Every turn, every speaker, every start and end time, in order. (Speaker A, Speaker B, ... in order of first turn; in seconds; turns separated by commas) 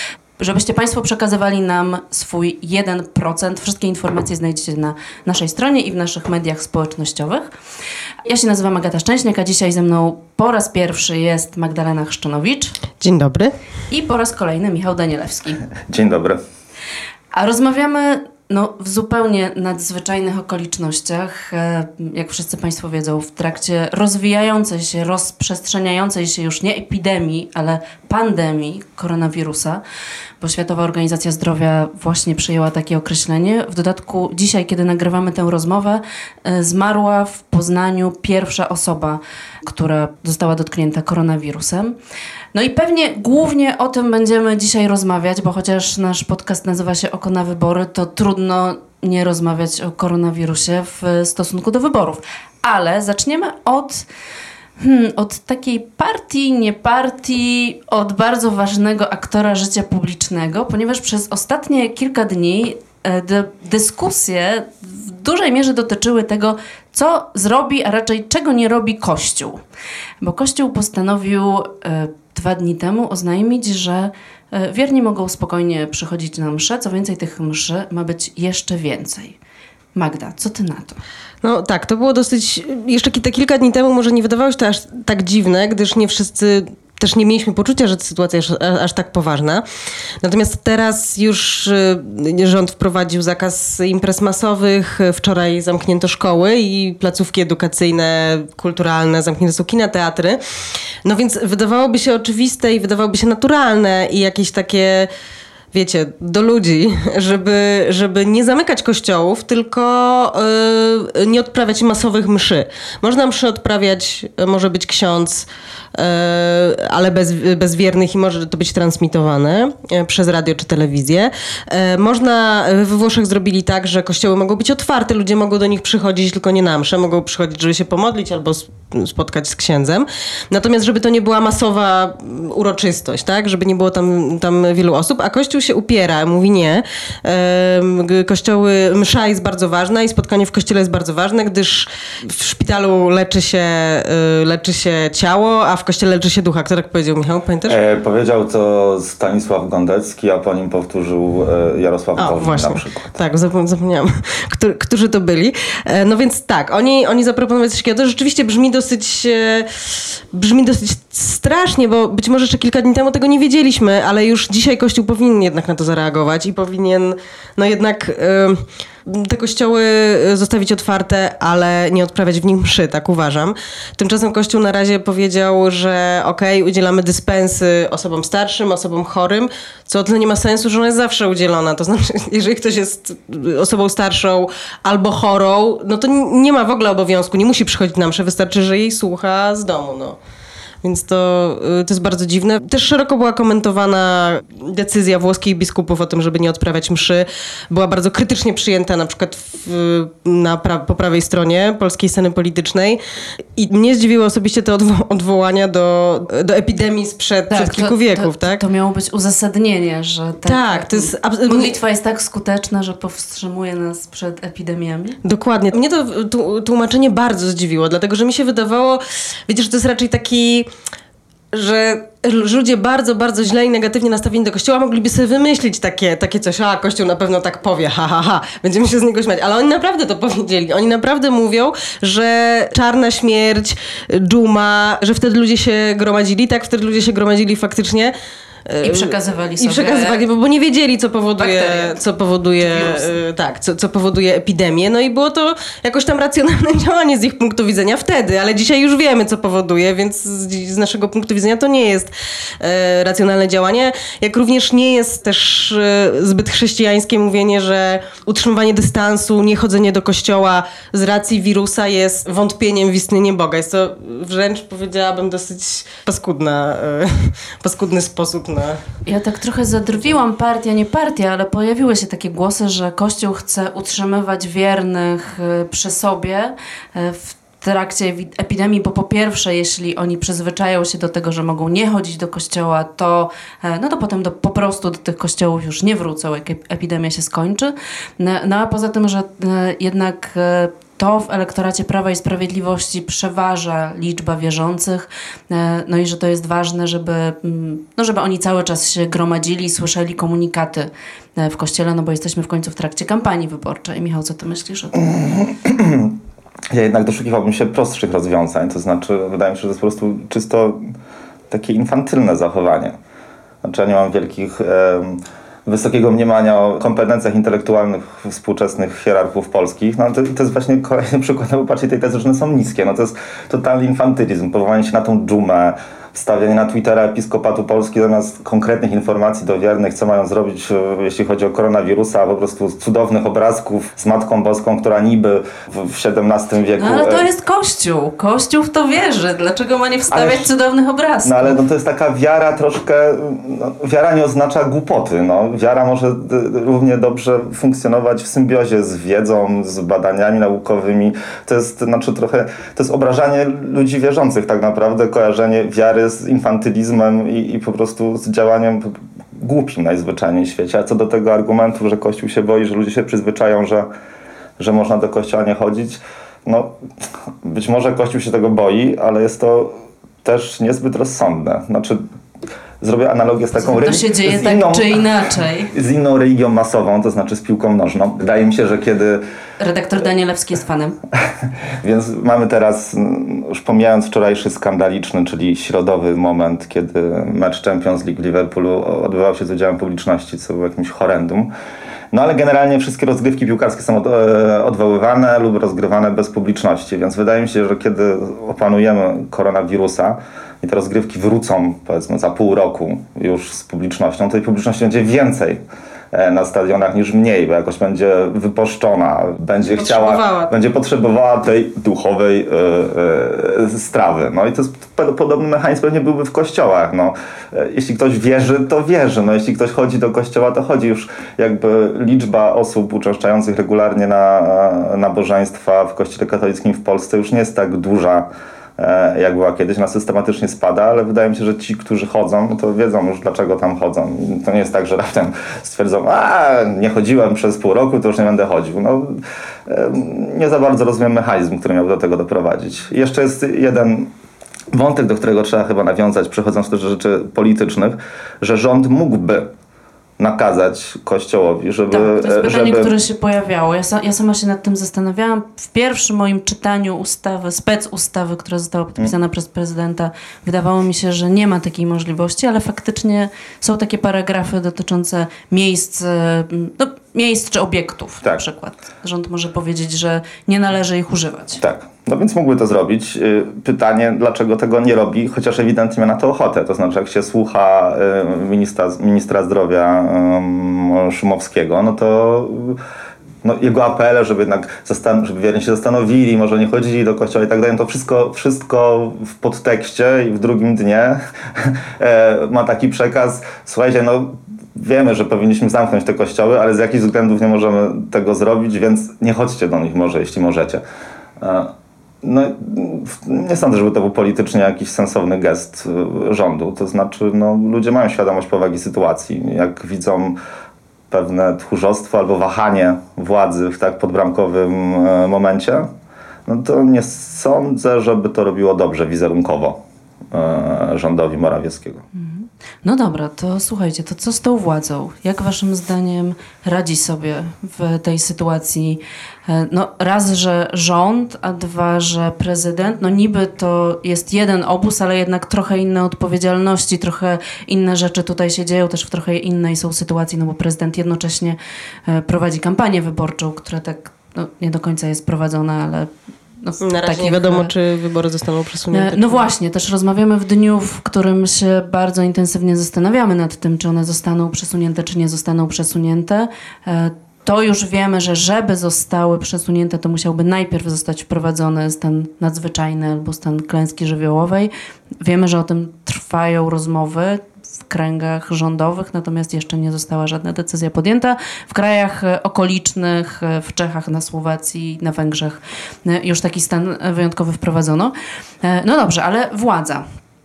Speaker A: 0.4-7.5, Speaker A: 8.2-12.8, Speaker B: 13.0-13.5, Speaker A: 13.9-15.6, Speaker C: 15.9-16.4, Speaker A: 17.3-29.8, Speaker A: 30.4-41.9, Speaker A: 42.5-54.0, Speaker A: 54.8-69.6, Speaker A: 70.2-79.3, Speaker A: 79.9-81.0, Speaker B: 81.4-89.6, Speaker B: 90.2-100.4, Speaker B: 101.0-105.1, Speaker B: 105.7-147.8, Speaker C: 147.7-153.1, Speaker B: 152.2-190.2, Speaker B: 190.8-203.0, Speaker B: 203.6-208.6, Speaker A: 207.5-215.2, Speaker B: 210.4-211.8, Speaker B: 215.2-220.7, Speaker B: 221.5-238.1, Speaker B: 238.7-268.8, Speaker A: 238.8-240.2, Speaker A: 241.4-242.0, Speaker A: 242.6-243.2, Speaker A: 269.0-305.1, Speaker C: 304.9-306.2, Speaker C: 306.7-310.9, Speaker C: 311.5-312.9, Speaker C: 313.6-337.2, Speaker A: 336.8-341.6, Speaker C: 340.1-340.5, Speaker C: 341.2-363.9, Speaker C: 364.6-366.7, Speaker C: 367.4-372.0, Speaker C: 372.8-375.0, Speaker A: 373.6-375.7, Speaker C: 375.7-379.2, Speaker A: 379.6-381.0, Speaker C: 381.8-391.5, Speaker C: 392.1-405.6, Speaker C: 406.1-444.1, Speaker B: 409.7-410.5, Speaker C: 444.7-449.5, Speaker C: 450.2-452.9, Speaker A: 451.9-471.6, Speaker C: 471.6-482.8, Speaker C: 483.4-500.8, Speaker C: 501.4-510.4, Speaker C: 511.1-515.9, Speaker C: 516.5-519.8, Speaker C: 520.3-522.0, Speaker A: 522.1-546.1, Speaker A: 546.6-547.7, Speaker B: 546.8-549.5, Speaker A: 548.9-580.0